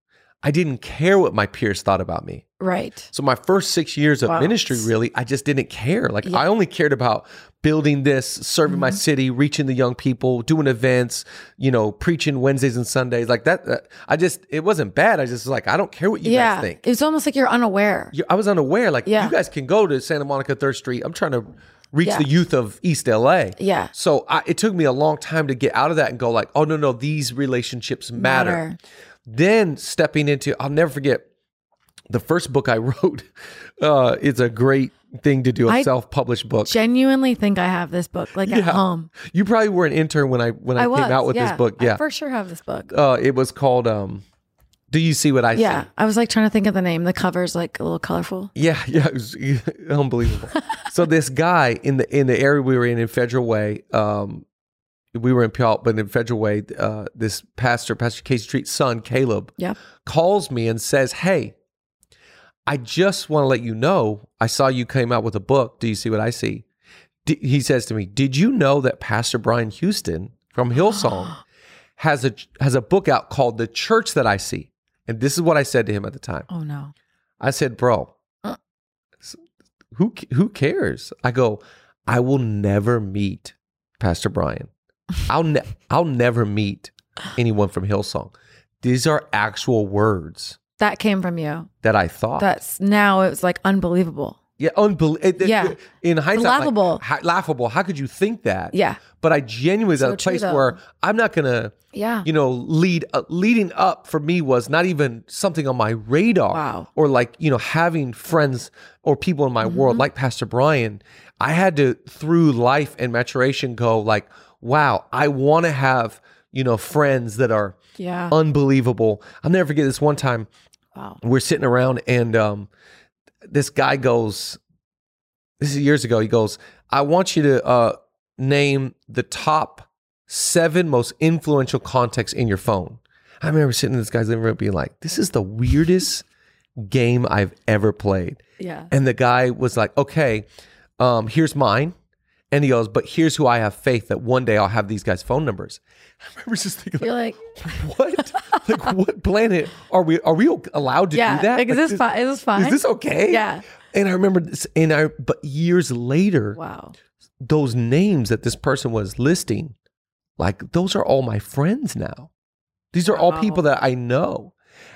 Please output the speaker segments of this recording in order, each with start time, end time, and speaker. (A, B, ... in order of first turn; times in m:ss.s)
0:00.4-0:02.4 A
0:02.6-0:03.1 B
0:03.1-0:16.8 A
0:04.3-0:04.9 B
0:08.7-0:09.0 B
0:16.2-0:18.1 B
0:18.1-0:28.6 A
0:19.1-0:19.4 B
0:23.6-0:23.9 B
0:28.2-0:28.8 B
0:29.3-0:31.3 A
0:32.1-0:33.3 A
0:33.8-0:36.8 A
0:36.6-0:39.1 B
0:38.4-0:42.0 A
0:40.8-0:42.9 B
0:42.9-0:44.2 A
0:44.9-0:45.9 A
0:45.5-0:48.5 B
0:48.6-0:54.4 A
0:55.1-0:59.5 A
1:00.0-1:01.6 A
1:02.7-1:06.6 A
1:07.2-1:11.4 A
1:10.8-1:11.4 B
1:12.0-1:16.5 A
1:16.5-1:16.9 B
1:17.4-1:18.1 A
1:19.9-1:24.7 A
1:25.3-1:30.6 A
1:30.8-1:31.7 B
1:31.8-1:32.5 A
1:32.4-1:34.4 B
1:34.6-1:57.8 A
1:35.4-1:35.8 B
1:36.3-1:37.0 B
1:38.7-1:39.0 B
1:40.0-1:40.8 B
1:41.9-1:42.3 B
1:46.5-1:46.9 B
1:49.6-1:50.0 B
1:58.0-1:58.4 B
1:58.3-2:00.5 A
2:01.2-2:02.7 A
2:03.5-2:04.6 A
2:05.6-2:16.3 A
2:16.8-2:20.5 A
2:18.6-2:18.9 B
2:21.0-2:22.0 A
2:22.5-2:32.0 A
2:27.0-2:27.6 B
2:28.4-2:28.6 B
2:31.1-2:33.6 B
2:32.6-2:36.6 A
2:36.5-2:37.0 B
2:37.4-2:39.8 A
2:40.4-2:42.3 A
2:42.9-2:44.5 A
2:43.1-2:43.6 B